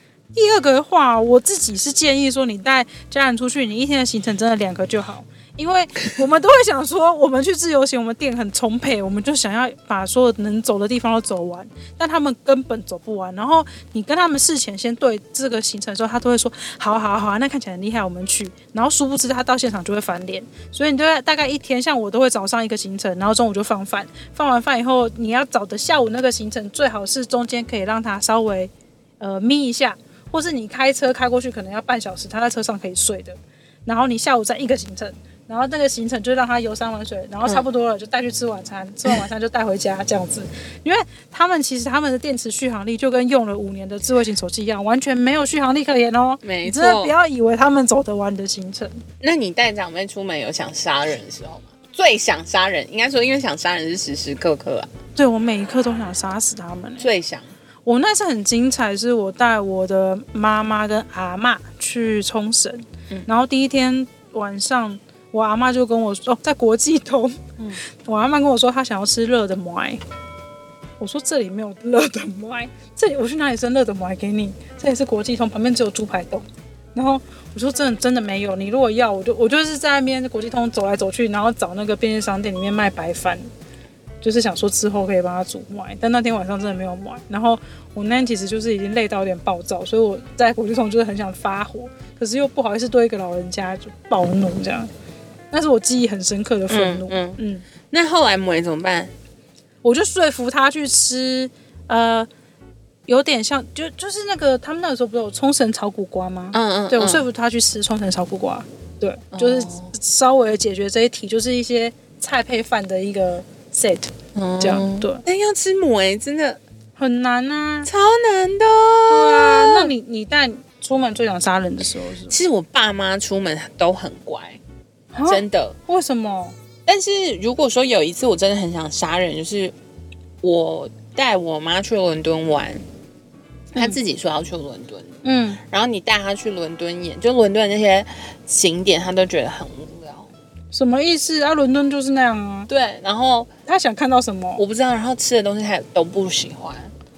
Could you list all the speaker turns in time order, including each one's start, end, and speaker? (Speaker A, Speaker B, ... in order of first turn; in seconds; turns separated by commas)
Speaker A: 0.3-49.0, Speaker B: 46.4-47.1, Speaker B: 49.2-54.9, Speaker A: 55.2-57.1, Speaker B: 57.0-57.5, Speaker A: 57.9-70.0, Speaker A: 71.0-83.5, Speaker A: 84.2-94.9, Speaker A: 95.5-97.7, Speaker B: 96.7-99.1, Speaker A: 99.8-102.3, Speaker A: 103.1-115.2, Speaker B: 106.5-107.3, Speaker B: 109.3-110.0, Speaker B: 114.3-116.6, Speaker A: 117.0-117.9, Speaker B: 117.8-119.9, Speaker A: 119.1-122.3, Speaker B: 122.3-124.6, Speaker A: 125.1-126.5, Speaker B: 125.3-125.8, Speaker B: 126.9-129.7, Speaker B: 130.4-132.8, Speaker B: 133.7-140.3, Speaker A: 135.2-135.6, Speaker A: 140.7-142.7, Speaker B: 142.7-143.5, Speaker A: 143.7-144.6, Speaker B: 144.6-146.9